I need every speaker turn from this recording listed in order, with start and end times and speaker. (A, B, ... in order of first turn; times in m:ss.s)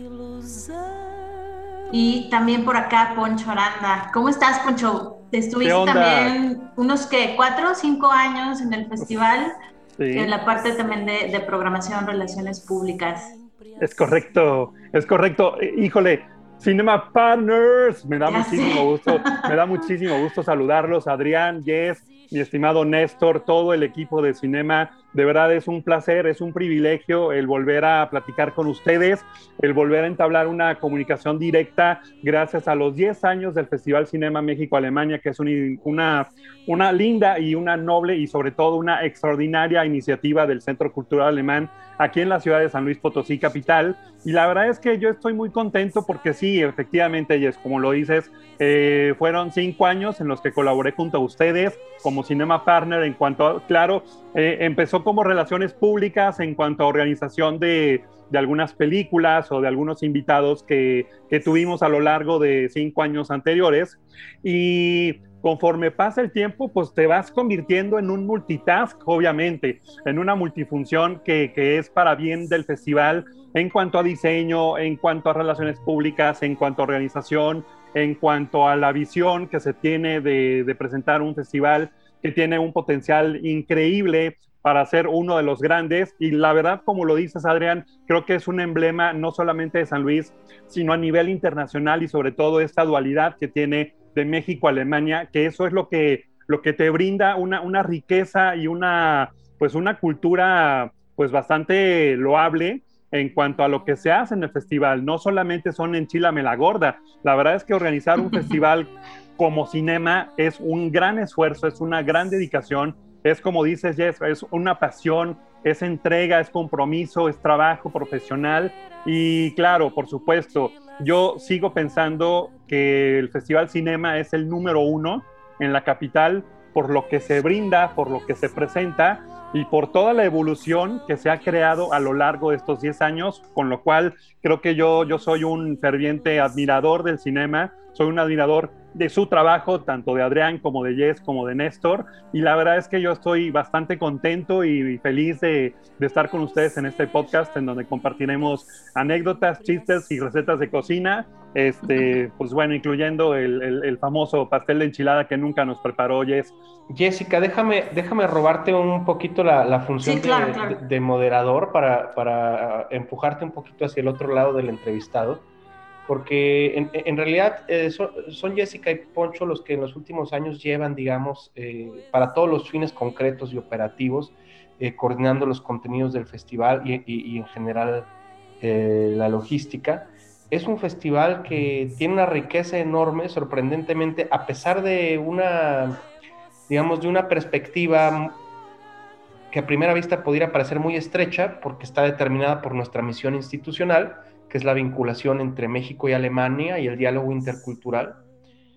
0:01.9-0:09.5 A
0:05.6-0:06.4 B
0:10.0-0:10.3 B
0:10.1-0:13.4 A
0:13.8-2:36.6 B
0:18.3-0:19.5 A
2:36.9-2:45.5 C
2:40.0-2:40.8 A
2:46.1-3:06.0 C
3:06.7-3:08.4 C
3:09.5-3:18.2 C